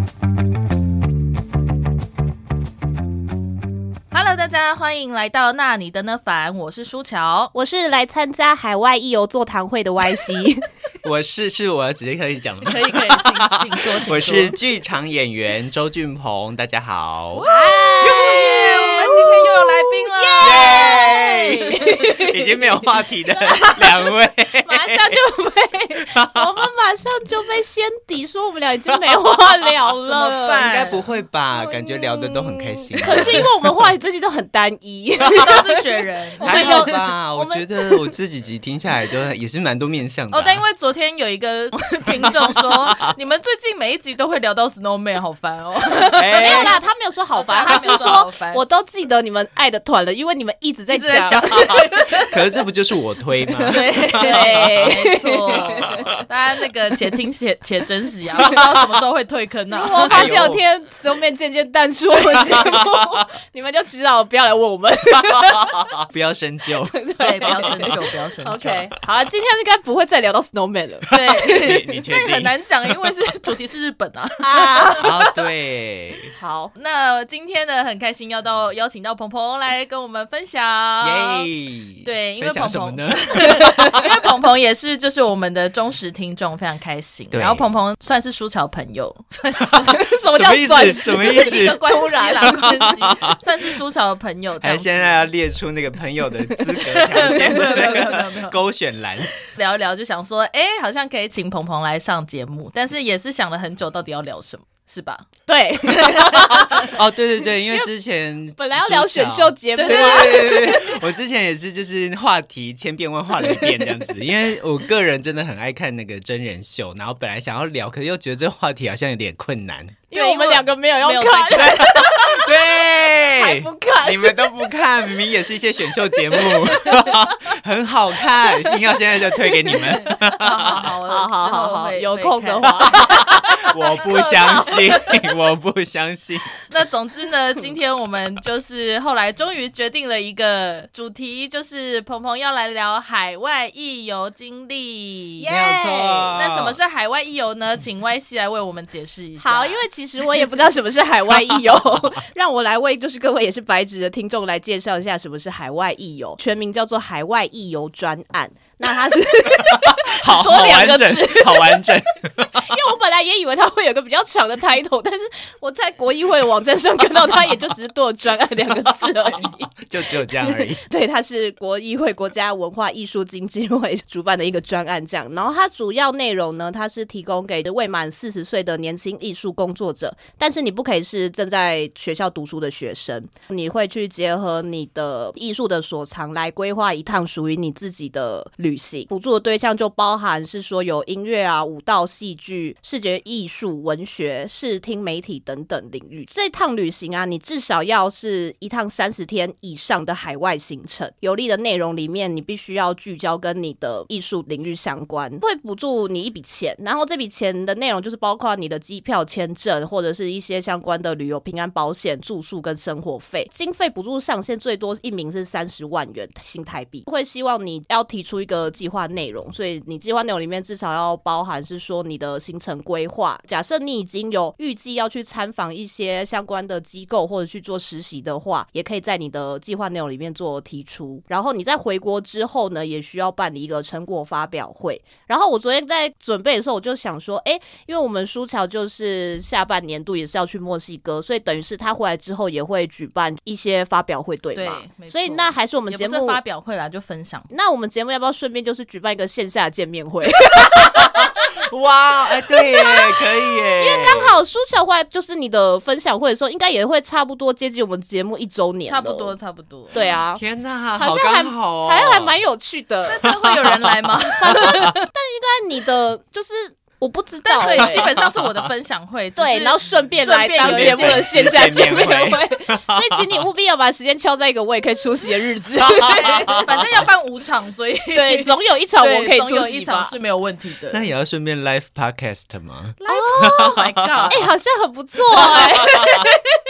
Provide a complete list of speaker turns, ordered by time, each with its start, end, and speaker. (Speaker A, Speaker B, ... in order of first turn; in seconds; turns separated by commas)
Speaker A: 4.1-7.5, Speaker B: 7.5-10.7, Speaker C: 11.0-17.5, Speaker A: 12.6-14.6, Speaker A: 17.3-22.1, Speaker B: 17.4-22.7, Speaker C: 20.4-25.2, Speaker B: 23.4-24.1, Speaker B: 24.6-30.9, Speaker C: 26.0-26.7, Speaker A: 30.1-31.1, Speaker C: 30.6-33.5, Speaker B: 31.5-35.9, Speaker A: 35.2-36.9, Speaker B: 36.4-38.1, Speaker C: 36.4-40.6, Speaker A: 40.3-46.8, Speaker C: 42.3-43.1, Speaker C: 46.1-46.8, Speaker B: 46.3-52.3, Speaker A: 47.3-48.6, Speaker A: 50.9-52.3, Speaker C: 51.6-55.0, Speaker B: 53.5-56.2, Speaker A: 53.7-60.4, Speaker C: 55.8-56.2, Speaker B: 59.7-65.8, Speaker C: 60.1-60.6, Speaker C: 62.3-63.2, Speaker C: 65.1-68.0, Speaker B: 66.9-71.8, Speaker A: 67.2-68.7, Speaker A: 71.1-75.1, Speaker C: 71.2-72.6, Speaker B: 74.4-75.3, Speaker C: 75.0-76.3, Speaker B: 76.3-76.7, Speaker A: 76.8-81.5, Speaker C: 81.0-84.1, Speaker A: 82.0-90.1, Speaker C: 87.3-87.7, Speaker C: 89.7-93.4, Speaker B: 89.8-93.0, Speaker A: 90.7-95.3, Speaker C: 94.6-99.3, Speaker A: 96.8-98.6, Speaker B: 97.2-98.1, Speaker A: 99.5-105.3, Speaker B: 105.5-106.9, Speaker A: 105.9-106.9, Speaker C: 106.4-120.0, Speaker B: 107.5-107.9, Speaker B: 108.6-111.0, Speaker A: 109.8-110.8, Speaker B: 120.1-125.2, Speaker A: 120.1-122.0, Speaker C: 121.5-130.9, Speaker B: 125.9-127.3, Speaker B: 128.5-135.0, Speaker A: 130.4-133.4, Speaker C: 133.0-136.6, Speaker A: 134.3-134.8, Speaker A: 136.7-145.5, Speaker B: 145.4-146.4, Speaker C: 145.5-146.8, Speaker A: 146.3-149.9, Speaker B: 149.4-246.4, Speaker C: 159.7-162.8, Speaker C: 169.0-170.8, Speaker A: 244.5-247.5, Speaker B: 247.5-251.5, Speaker C: 250.6-254.3, Speaker B: 252.5-259.4, Speaker A: 258.9-260.1, Speaker B: 259.9-260.4, Speaker C: 260.3-262.4, Speaker B: 261.0-263.3, Speaker A: 263.1-265.1, Speaker C: 263.1-265.0, Speaker B: 264.4-268.1, Speaker A: 267.4-272.1, Speaker C: 267.7-268.7, Speaker B: 269.4-277.0, Speaker C: 270.6-273.4, Speaker C: 275.8-276.9, Speaker A: 275.9-281.1, Speaker B: 278.1-280.1, Speaker C: 280.9-284.5, Speaker A: 283.0-284.5, Speaker B: 283.1-286.4, Speaker C: 285.3-286.3